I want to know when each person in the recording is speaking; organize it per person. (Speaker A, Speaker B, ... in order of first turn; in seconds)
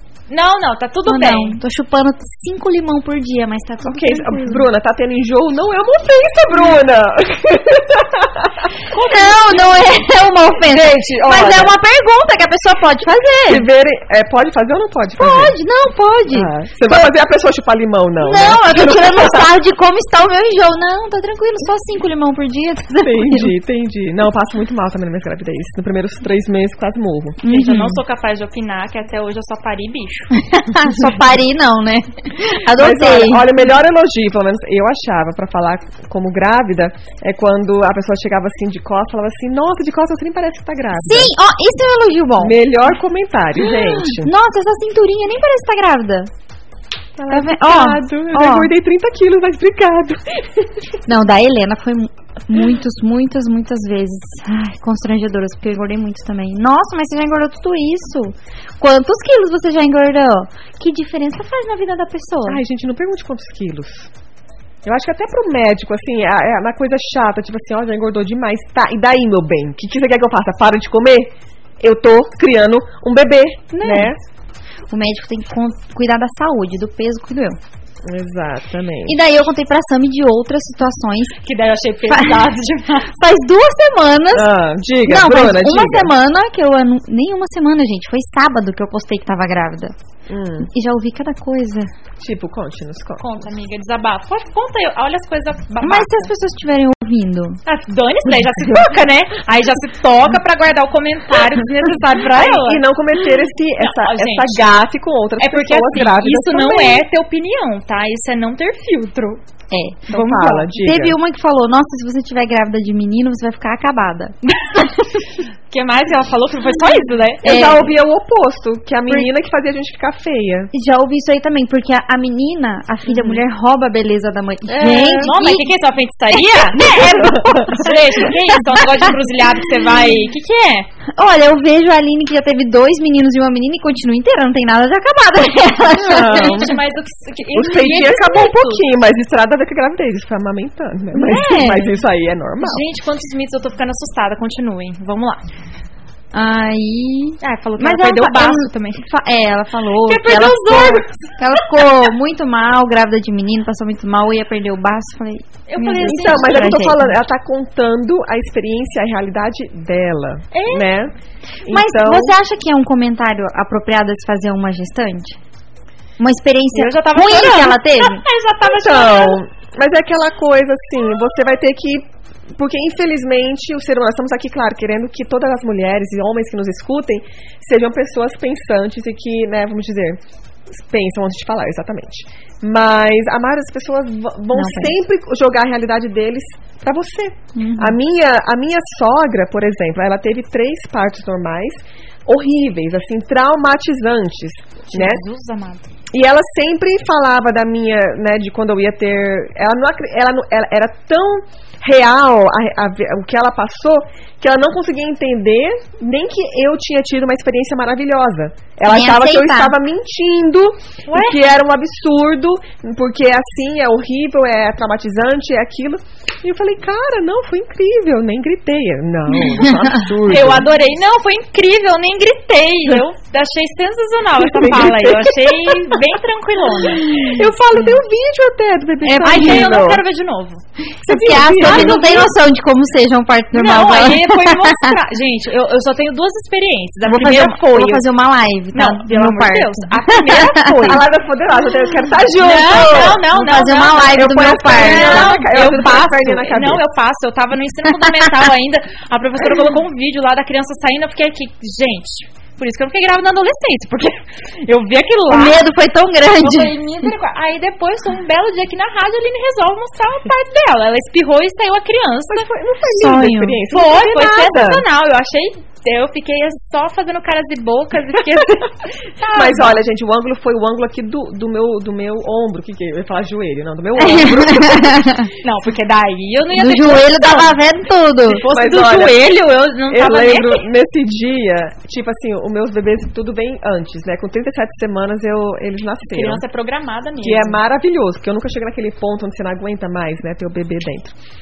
Speaker A: 0.3-1.6, 8.9-10.1, 27.5-30.3, 81.4-83.1, 93.2-96.3, 97.7-102.8, 103.8-104.7, 105.4-109.4, 110.1-110.7, 115.7-117.7, 125.2-130.9, 136.2-138.8, 142.6-145.5, 147.4-149.0, 150.0-151.1, 155.7-156.9, 160.5-160.9, 166.7-169.4, 194.9-195.9, 211.1-211.4, 220.2-227.2, 229.2-230.6, 231.6-232.3, 233.5-238.0, 238.7-241.0, 242.3-255.6, 256.4-262.5, 263.7-269.8, 275.4-277.6, 278.3-280.6, 286.1-287.6
Speaker B: 1.1-4.7, 8.9-13.7, 15.2-17.1, 18.2-23.5, 27.4-28.0, 30.4-33.6, 41.0-42.6, 43.7-46.3, 47.3-48.7, 51.1-62.6, 73.8-74.1, 74.9-77.6, 79.1-81.4, 82.1-82.5, 83.1-84.5, 85.0-89.9, 90.7-91.9, 95.8-97.6, 109.7-114.9, 117.4-117.9, 120.7-125.7, 126.7-129.1, 131.2-136.7, 141.1-142.0, 146.3-157.2, 161.7-165.4, 166.2-168.2, 184.5-185.0, 187.6-188.0, 208.9-209.8, 219.4-220.0, 227.1-227.4, 229.0-229.8, 231.0-235.0, 237.0-241.0, 242.8-245.4, 255.3-256.7, 263.0-263.6, 274.0-275.3, 276.5-278.4
Speaker C: 3.9-8.5, 10.6-11.8, 13.5-15.6, 16.3-19.5, 23.0-27.4, 32.8-41.3, 42.4-44.3, 47.2-50.7, 62.5-64.1, 64.8-74.2, 78.0-79.2, 84.3-86.1, 90.3-90.7, 92.2-93.2, 102.2-107.0, 110.1-111.2, 117.4-120.7, 124.7-125.4, 126.8-127.9, 136.0-136.8, 137.5-142.8, 156.0-161.1, 161.7-162.3, 168.6-180.2, 180.7-195.2, 196.1-220.7, 224.4-225.9, 227.0-230.0, 231.1-232.2, 240.6-243.2, 244.1-246.8, 262.3-264.8, 269.3-275.1, 278.5-279.3, 279.9-286.4, 287.2-291.1